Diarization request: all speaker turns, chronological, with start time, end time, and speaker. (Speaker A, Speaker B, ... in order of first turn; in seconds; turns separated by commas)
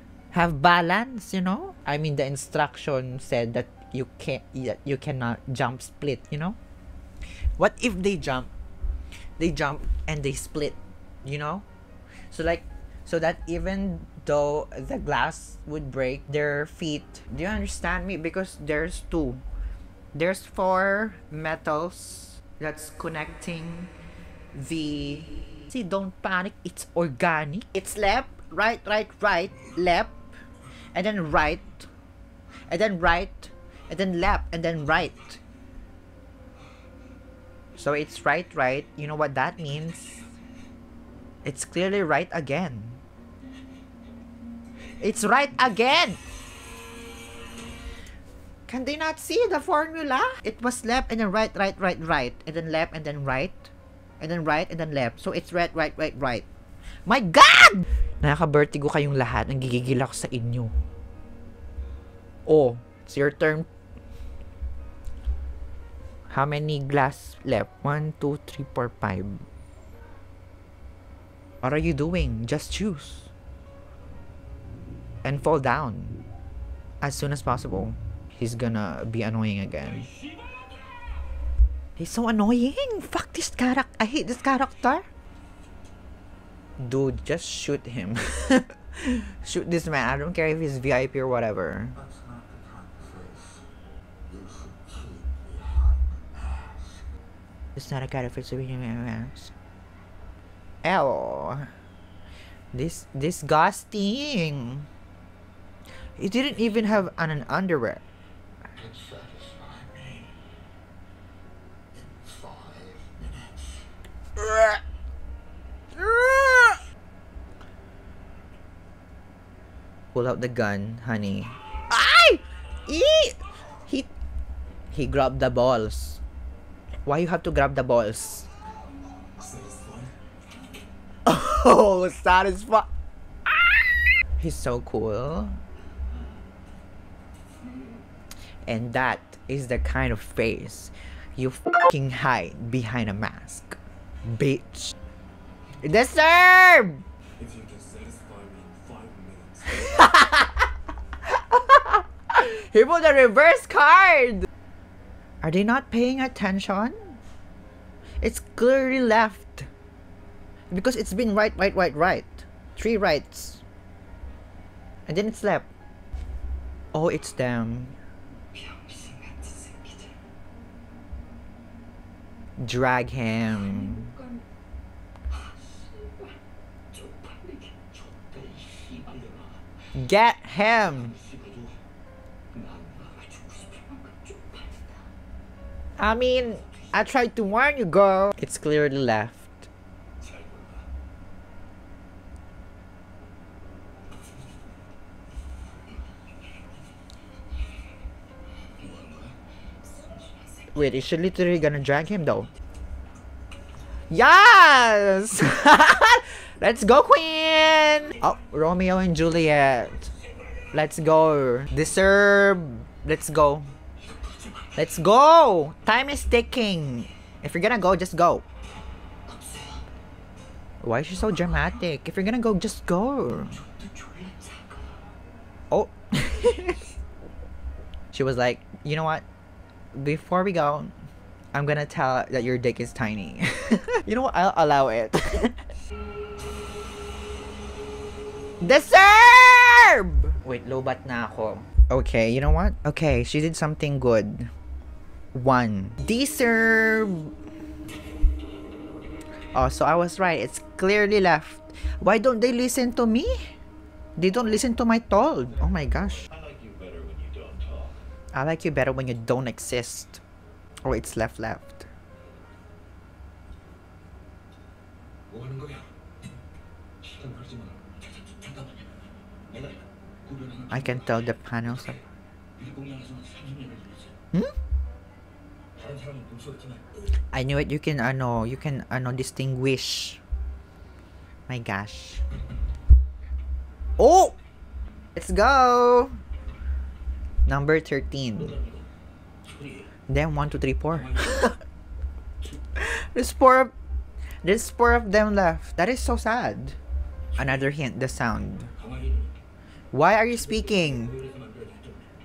Speaker A: 0.3-6.6, Speaker A: 7.6-8.5, Speaker A: 9.4-11.7, Speaker A: 12.3-19.4, Speaker A: 20.1-23.9, Speaker A: 24.5-30.2, Speaker A: 30.9-31.9, Speaker A: 32.7-35.4, Speaker A: 37.8-40.3, Speaker A: 41.4-43.0, Speaker A: 45.0-46.2, Speaker A: 48.7-56.5, Speaker A: 57.1-60.7, Speaker A: 62.5-63.7, Speaker A: 66.3-69.5, Speaker A: 71.6-73.3, Speaker A: 75.2-76.2, Speaker A: 77.0-80.1, Speaker A: 82.0-85.1, Speaker A: 86.8-92.0, Speaker B: 92.0-93.3, Speaker B: 94.3-95.9, Speaker A: 97.8-99.5, Speaker A: 100.8-101.7, Speaker A: 102.7-104.9, Speaker A: 106.2-108.0, Speaker B: 108.8-110.3, Speaker B: 112.2-113.6, Speaker A: 114.4-114.8, Speaker A: 116.0-116.8, Speaker A: 120.1-124.1, Speaker A: 124.9-126.2, Speaker A: 127.1-128.5, Speaker C: 129.5-130.1, Speaker A: 131.2-132.9, Speaker A: 133.5-133.8, Speaker A: 134.4-135.6, Speaker A: 138.7-144.9, Speaker A: 145.8-147.1, Speaker C: 147.5-149.5, Speaker A: 149.7-150.7, Speaker A: 151.2-154.5, Speaker A: 155.4-157.2, Speaker A: 158.2-159.7, Speaker A: 160.7-163.6, Speaker A: 165.1-165.7, Speaker A: 166.9-168.0, Speaker A: 172.6-174.2, Speaker C: 178.4-179.4, Speaker A: 179.9-181.2, Speaker C: 182.6-184.0, Speaker A: 186.0-189.7, Speaker C: 190.3-190.7, Speaker C: 198.9-199.2, Speaker A: 200.7-202.5, Speaker A: 204.1-210.1, Speaker A: 210.7-213.7, Speaker A: 214.8-218.5, Speaker A: 220.8-223.6, Speaker C: 223.9-224.7, Speaker A: 225.7-226.8, Speaker A: 228.1-229.2, Speaker A: 229.9-230.9, Speaker A: 231.5-235.6, Speaker A: 238.6-244.5, Speaker A: 245.3-247.3, Speaker A: 249.5-253.5, Speaker A: 254.2-256.3, Speaker C: 256.4-257.9, Speaker A: 258.3-260.2, Speaker A: 260.8-261.9, Speaker C: 265.3-265.9, Speaker C: 267.2-267.8, Speaker A: 270.7-272.0, Speaker C: 272.6-274.0, Speaker C: 275.8-276.8, Speaker A: 277.3-280.2, Speaker A: 281.5-282.2, Speaker A: 284.0-284.4, Speaker A: 285.1-286.2, Speaker A: 287.5-288.6, Speaker A: 290.1-291.6, Speaker A: 292.8-293.7, Speaker A: 294.4-296.8, Speaker A: 297.4-298.7, Speaker A: 299.9-301.2, Speaker C: 301.4-302.0